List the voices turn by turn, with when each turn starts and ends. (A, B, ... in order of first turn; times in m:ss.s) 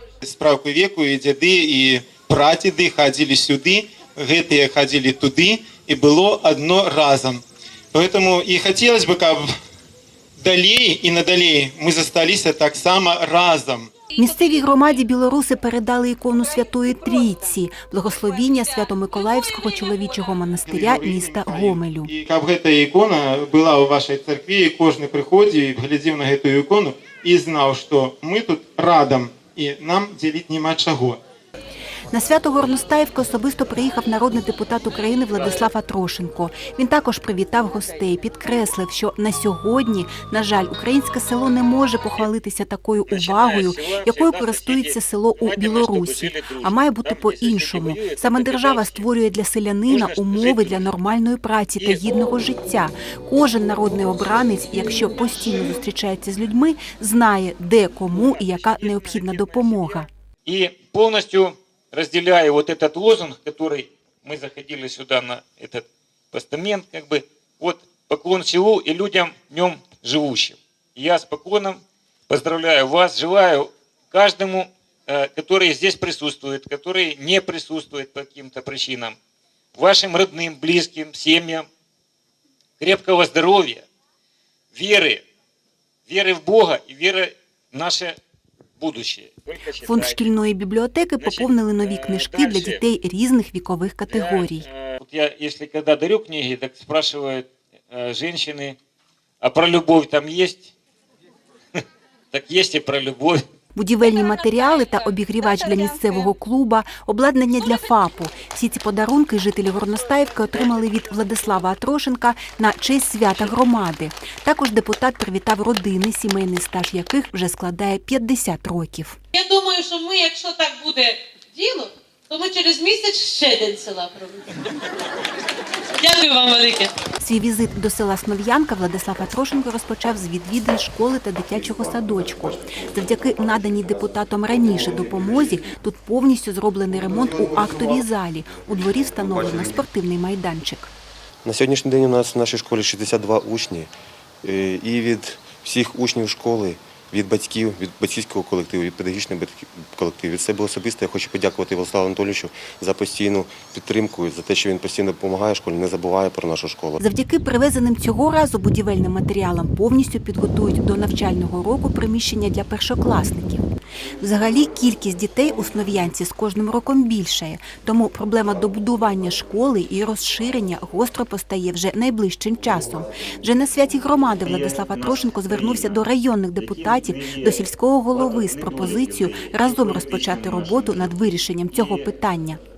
0:00.2-0:07.4 A
0:07.9-0:09.5 A
0:10.4-0:13.9 A
0:14.2-0:22.1 B
0:20.7-0:31.2 A
0:32.1-1:00.1 B
0:43.1-0:49.0 C
0:49.9-0:50.8 C
0:58.5-0:59.7 C
1:00.4-1:19.2 C
1:19.7-1:21.7 C
1:22.8-1:23.8 C
1:24.7-1:25.2 C
1:26.1-1:28.2 C
1:28.8-1:30.2 C
1:29.8-1:34.6 B
1:31.2-1:32.8 C
1:34.1-1:38.8 C
1:39.4-1:40.7 C
1:41.8-1:43.4 C
1:43.7-1:59.2 B
1:59.3-2:04.6 D
2:06.0-2:06.9 D
2:07.2-2:20.9 B
2:11.7-2:14.0 E
2:14.5-2:15.6 E
2:17.0-2:18.0 E
2:18.6-2:19.8 E
2:21.4-2:23.9 E
2:24.4-2:37.0 E
2:37.0-2:43.6 B
2:44.2-3:02.6 B
2:54.4-2:56.0 C
2:56.6-3:02.0 C